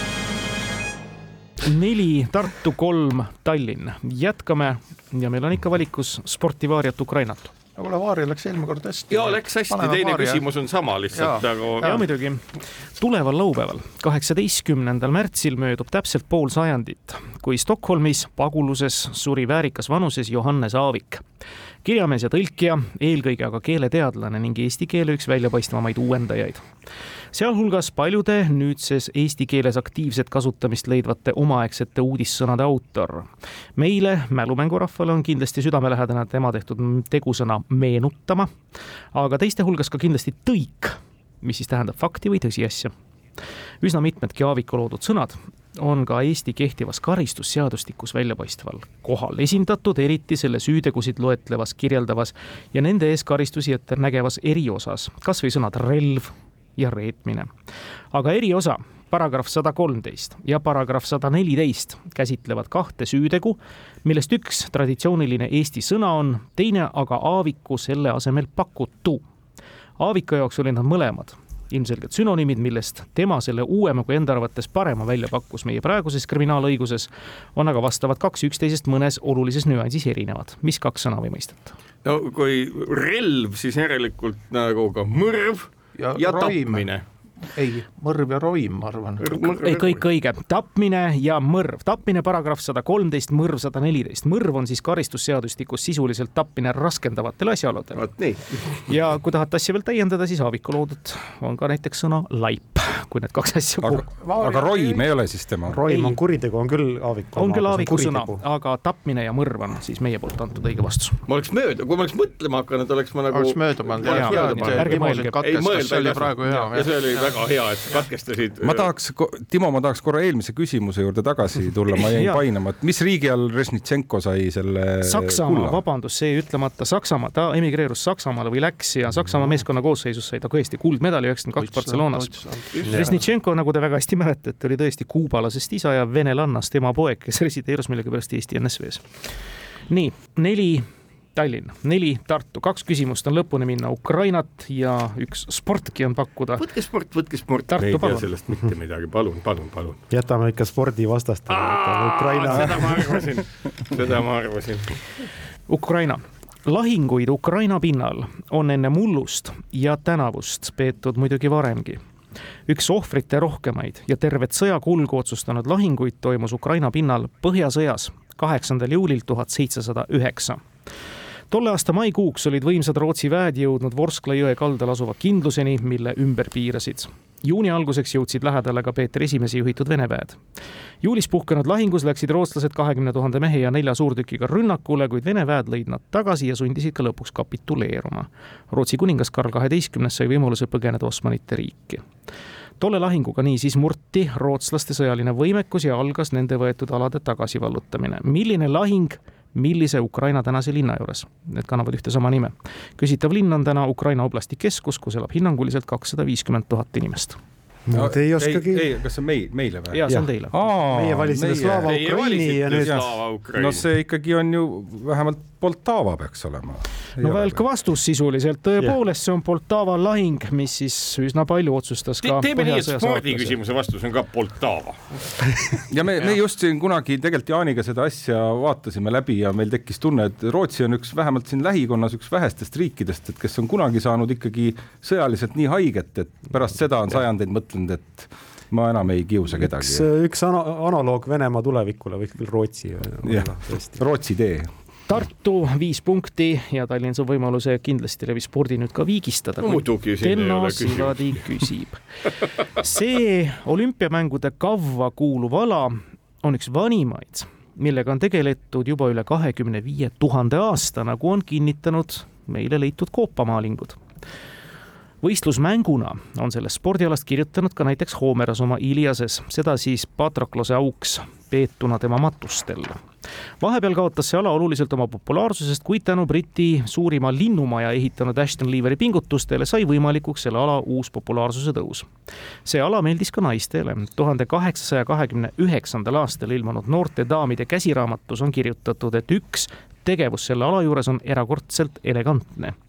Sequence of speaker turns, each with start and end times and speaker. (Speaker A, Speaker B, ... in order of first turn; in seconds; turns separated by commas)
Speaker A: 1.6-7.5, Speaker B: 7.8-10.5, Speaker C: 9.1-12.0, Speaker B: 11.1-12.0, Speaker A: 11.8-21.2, Speaker A: 21.8-26.7, Speaker A: 27.3-38.5, Speaker A: 39.1-42.9, Speaker A: 43.8-57.5, Speaker A: 58.1-69.2, Speaker A: 70.0-81.7, Speaker C: 82.0-87.0, Speaker B: 86.0-86.9, Speaker B: 87.5-89.4, Speaker C: 89.2-90.0, Speaker A: 89.4-98.1, Speaker C: 98.0-98.8, Speaker A: 98.7-104.0, Speaker D: 103.8-105.8, Speaker B: 104.3-105.0, Speaker E: 105.7-108.4, Speaker A: 105.9-106.2, Speaker A: 107.3-111.2, Speaker C: 111.3-118.9, Speaker B: 113.3-117.3, Speaker A: 114.0-115.4, Speaker D: 118.6-125.8, Speaker A: 122.0-122.4, Speaker A: 125.0-139.1, Speaker B: 131.6-133.3, Speaker E: 132.9-133.2, Speaker A: 139.9-146.7, Speaker C: 146.6-150.0, Speaker A: 147.7-148.3, Speaker E: 150.1-153.2, Speaker C: 151.5-155.0, Speaker D: 152.5-152.8, Speaker A: 155.7-162.0, Speaker A: 162.7-170.6, Speaker A: 171.5-180.4, Speaker A: 181.0-192.0, Speaker A: 192.8-207.4, Speaker E: 207.9-208.9, Speaker D: 207.9-217.6, Speaker A: 209.9-210.5, Speaker E: 210.8-212.9, Speaker C: 211.8-213.9, Speaker A: 217.2-223.6, Speaker C: 222.2-225.0, Speaker D: 225.9-240.1, Speaker E: 239.6-244.0, Speaker D: 243.2-244.7, Speaker A: 245.1-252.0, Speaker C: 249.6-251.4, Speaker A: 252.8-264.0, Speaker A: 265.2-273.0, Speaker A: 273.6-282.1, Speaker A: 282.6-292.8